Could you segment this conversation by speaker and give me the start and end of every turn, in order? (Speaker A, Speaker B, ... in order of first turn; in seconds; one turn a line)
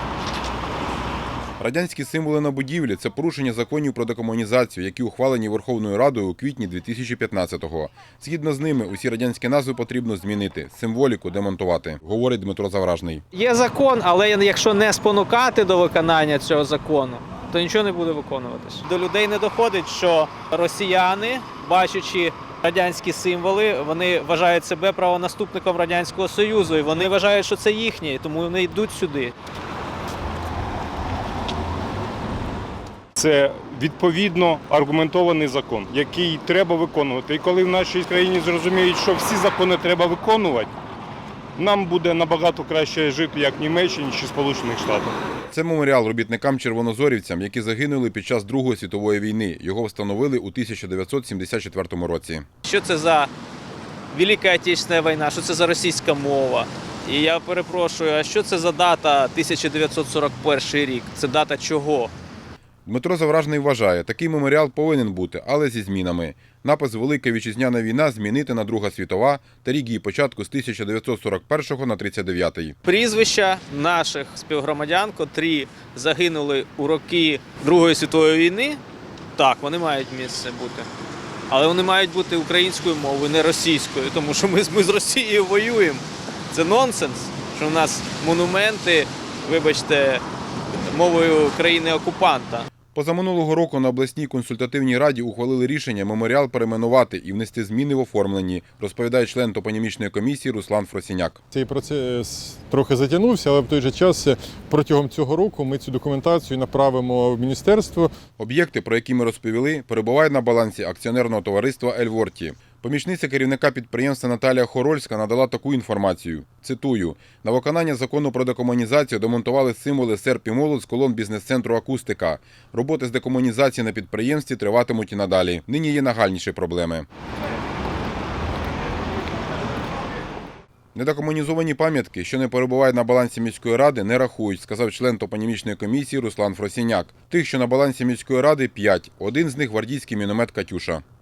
Speaker A: 1.6-13.2
Speaker B: 13.3-29.3
Speaker C: 33.2-40.7
Speaker C: 41.6-45.1
Speaker A: 45.5-52.4
Speaker B: 52.6-53.3
Speaker B: 54.1-62.1
Speaker A: 62.9-72.7
Speaker B: 72.8-78.8
Speaker B: 79.4-80.9
Speaker B: 81.5-90.2
Speaker B: 90.9-92.7
Speaker A: 92.9-101.4
Speaker D: 101.5-108.1
Speaker A: 108.4-127.0
Speaker A: 130.9-141.0